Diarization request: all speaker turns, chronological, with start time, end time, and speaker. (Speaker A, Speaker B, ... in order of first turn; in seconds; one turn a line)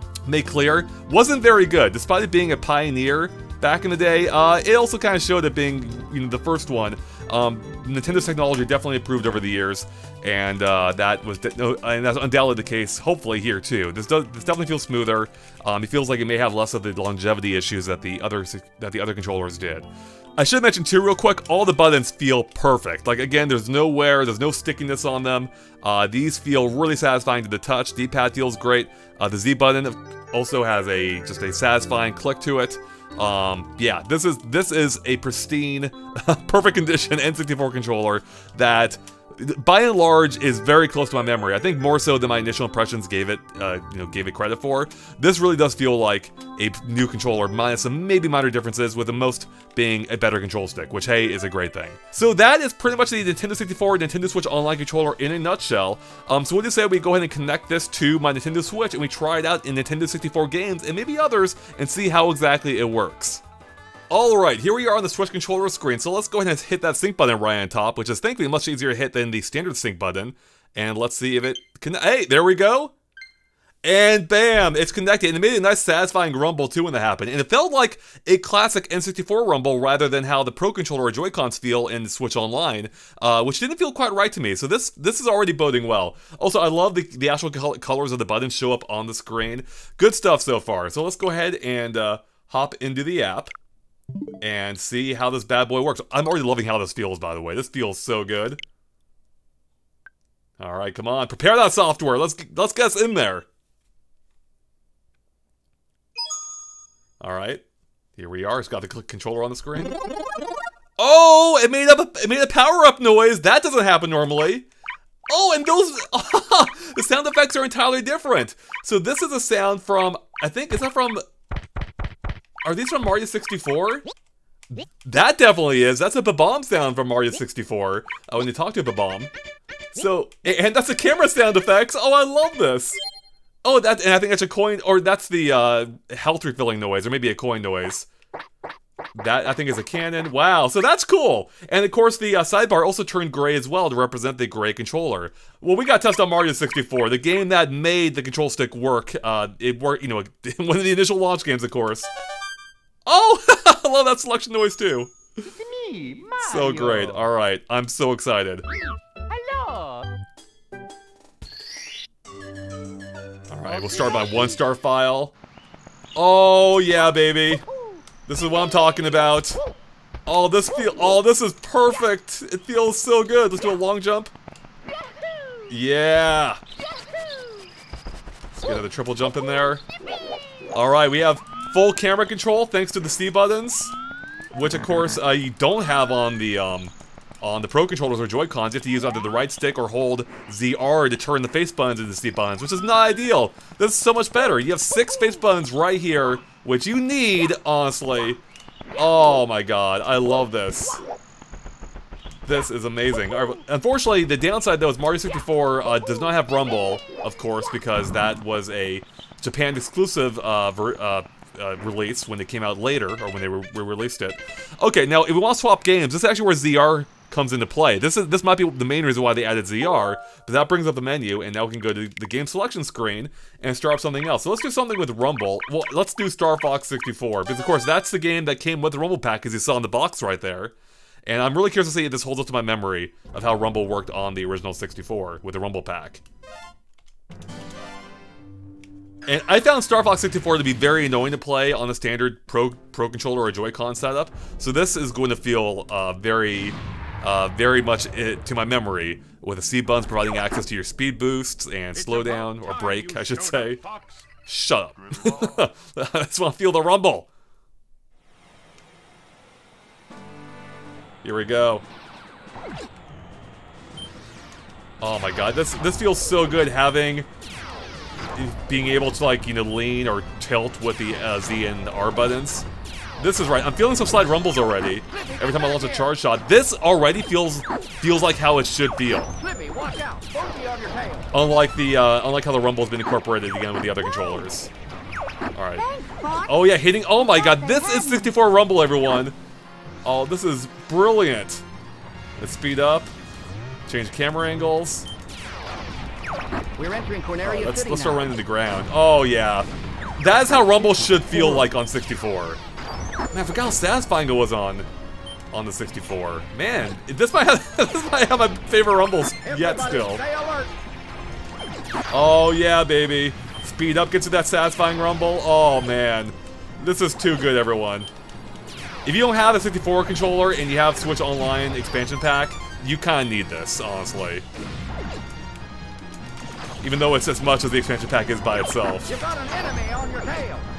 Speaker A: 0.2-63.4
Speaker A: 64.1-72.9
Speaker A: 73.8-93.5
Speaker A: 94.4-98.6
Speaker A: 100.6-103.5
Speaker A: 107.2-107.6
Speaker A: 108.2-110.0
Speaker A: 111.0-114.7
Speaker A: 115.3-121.2
Speaker A: 122.6-124.1
Speaker A: 124.7-129.3
Speaker A: 129.9-133.0
Speaker A: 133.6-138.1
Speaker A: 139.1-152.1
Speaker A: 153.1-155.1
Speaker B: 155.5-157.2
Speaker A: 156.4-158.6
Speaker B: 159.3-160.1
Speaker A: 163.5-165.3
Speaker A: 166.2-167.6
Speaker A: 168.2-169.6
Speaker A: 170.3-174.3
Speaker A: 175.7-176.6
Speaker A: 178.6-179.8
Speaker A: 180.7-183.9
Speaker A: 184.5-198.4
Speaker A: 198.9-201.0
Speaker A: 202.4-230.7
Speaker A: 231.3-236.2
Speaker A: 239.2-253.8
Speaker A: 254.4-257.3
Speaker A: 261.2-261.8
Speaker A: 265.0-267.3
Speaker A: 268.3-272.7
Speaker A: 273.2-279.4
Speaker B: 279.4-281.3
Speaker A: 281.3-284.7
Speaker A: 285.5-285.9
Speaker B: 285.8-286.5
Speaker A: 286.4-289.4
Speaker A: 290.0-291.6
Speaker A: 292.4-293.1
Speaker A: 293.9-295.1
Speaker B: 296.8-298.2
Speaker A: 297.4-302.6
Speaker A: 303.3-304.9
Speaker A: 305.5-310.3
Speaker B: 310.1-310.7
Speaker A: 312.1-318.1
Speaker A: 319.0-324.4
Speaker A: 326.8-329.3
Speaker B: 329.3-330.7